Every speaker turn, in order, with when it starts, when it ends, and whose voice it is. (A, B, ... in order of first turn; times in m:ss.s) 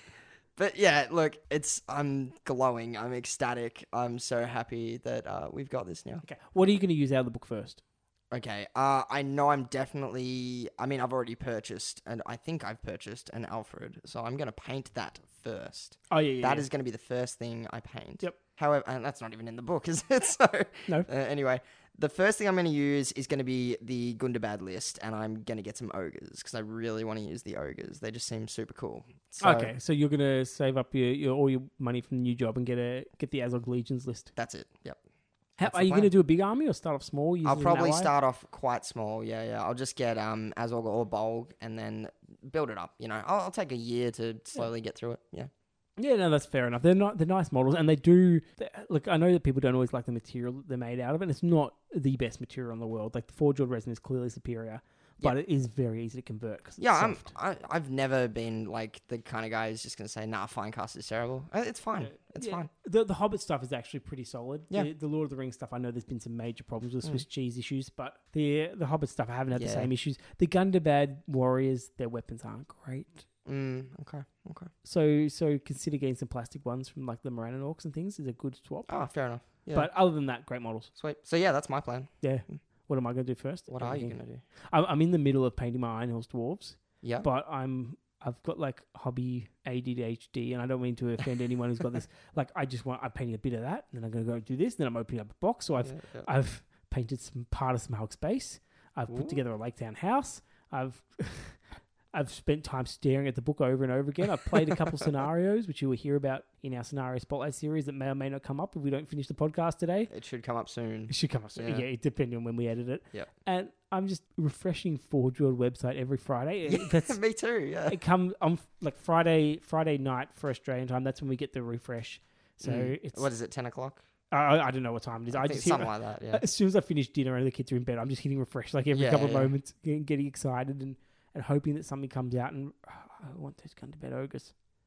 0:00.6-0:06.2 A
0:06.2-0:07.8 B
0:08.3-0:29.7 A
0:16.1-0:16.7 B
0:29.4-0:34.3 B
0:34.4-0:35.0 A
0:35.6-0:38.1 B
0:35.6-0:36.1 A
0:37.4-0:45.5 A
0:46.0-0:57.3 B
0:56.8-1:02.7 A
1:02.0-1:13.2 B
1:09.5-1:09.9 A
1:13.5-1:14.7 A
1:14.8-1:18.9 B
1:18.9-1:19.9 A
1:19.7-1:20.9 B
1:21.0-1:22.6 A
1:22.2-1:24.2 B
1:23.7-1:24.4 A
1:24.7-1:50.1 B
1:27.0-1:27.3 A
1:35.8-1:36.3 A
1:39.1-1:39.4 A
1:50.1-1:51.8 A
1:51.1-1:57.2 B
1:56.7-1:58.0 A
1:57.9-2:03.3 B
2:02.6-2:04.0 A
2:04.3-2:14.5 B
2:05.3-2:06.4 A
2:08.9-2:09.5 A